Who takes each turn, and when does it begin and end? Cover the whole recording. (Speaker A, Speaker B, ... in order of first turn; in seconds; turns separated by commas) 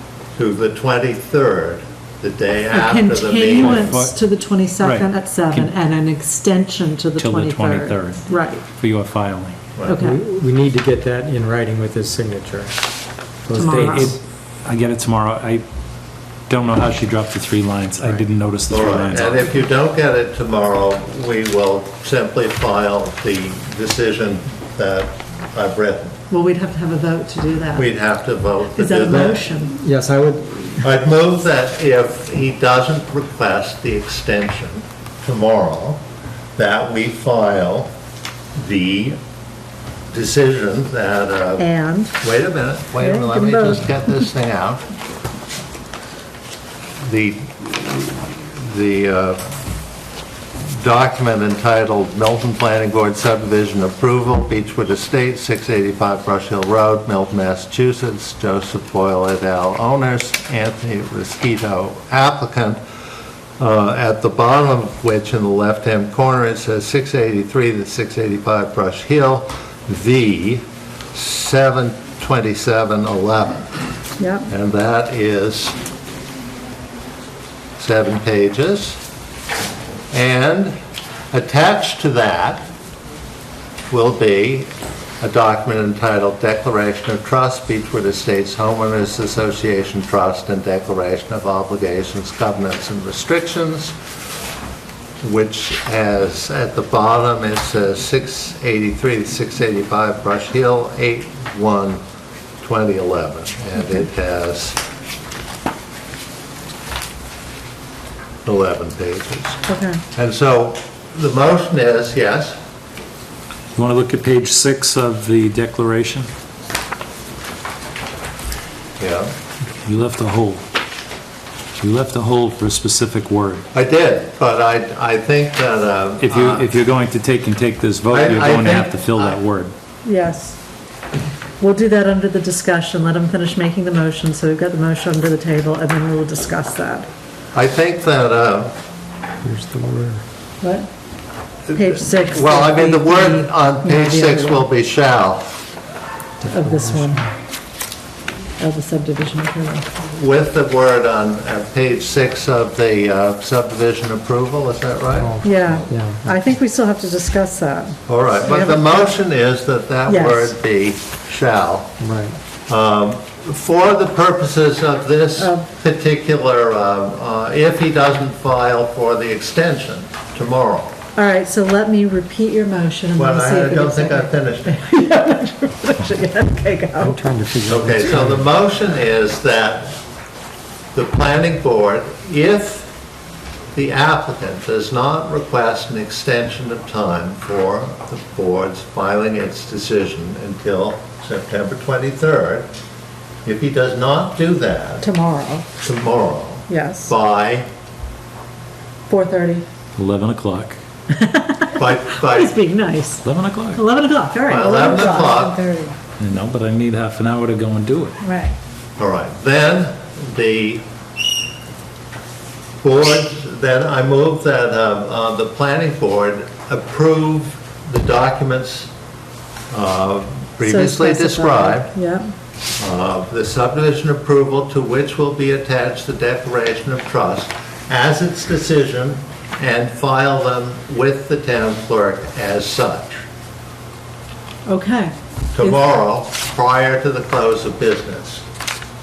Speaker A: 0.3-4.0, Speaker B: 2.7-8.6, Speaker C: 3.6-4.2, Speaker C: 4.8-5.7, Speaker C: 7.2-9.6, Speaker B: 9.8-10.2, Speaker D: 10.0-12.9, Speaker D: 13.4-14.2, Speaker B: 13.6-14.1, Speaker C: 13.9-15.6, Speaker C: 16.5-19.5, Speaker A: 18.7-26.2, Speaker B: 26.3-27.9, Speaker A: 27.7-29.5, Speaker B: 28.7-29.7, Speaker D: 29.7-30.9, Speaker A: 30.8-36.0, Speaker A: 36.6-37.9, Speaker A: 38.5-39.2, Speaker A: 40.1-41.7, Speaker B: 41.6-42.2, Speaker A: 42.2-44.9, Speaker B: 43.0-44.2, Speaker A: 47.0-49.4, Speaker A: 50.8-62.8, Speaker A: 63.6-70.6, Speaker A: 71.1-73.7, Speaker B: 74.2-74.5, Speaker A: 74.5-75.8, Speaker A: 77.8-79.0, Speaker A: 80.1-80.7, Speaker A: 81.3-82.7, Speaker A: 83.9-84.7, Speaker A: 85.2-93.9, Speaker A: 95.2-102.0, Speaker A: 102.6-104.8, Speaker A: 108.4-109.6, Speaker B: 109.7-110.0, Speaker A: 110.2-112.6, Speaker C: 113.7-116.3, Speaker A: 119.0-119.3, Speaker C: 119.8-120.6, Speaker C: 121.8-123.6, Speaker A: 123.7-126.7, Speaker C: 126.2-129.7, Speaker A: 128.1-129.4, Speaker B: 130.0-130.6, Speaker B: 131.6-137.1, Speaker A: 137.5-138.7, Speaker D: 139.4-140.2, Speaker B: 140.6-140.9, Speaker A: 141.7-145.6, Speaker B: 141.7-144.7, Speaker D: 146.4-147.3, Speaker B: 146.4-147.2, Speaker B: 148.6-150.0, Speaker A: 150.1-155.4, Speaker D: 155.2-156.4, Speaker B: 155.4-159.2, Speaker A: 158.1-161.9, Speaker B: 160.1-160.6, Speaker D: 162.0-162.3, Speaker A: 162.7-170.9, Speaker B: 165.4-165.7, Speaker B: 171.2-177.2, Speaker A: 173.2-174.8, Speaker D: 177.0-178.4, Speaker A: 177.7-179.9, Speaker A: 180.9-182.9, Speaker A: 183.7-192.7, Speaker A: 193.4-195.0, Speaker B: 195.0-195.7, Speaker A: 195.8-197.7, Speaker B: 196.7-197.1, Speaker B: 199.1-199.6, Speaker C: 199.9-200.8, Speaker B: 201.1-203.2, Speaker A: 201.8-202.6, Speaker C: 203.2-203.8, Speaker B: 203.7-205.9, Speaker A: 204.5-205.6, Speaker C: 206.2-208.2, Speaker B: 208.2-208.5, Speaker A: 209.0-210.8, Speaker A: 212.8-218.9, Speaker A: 219.7-221.9, Speaker B: 220.6-222.2, Speaker A: 222.8-233.2, Speaker B: 234.7-235.8, Speaker A: 235.5-238.4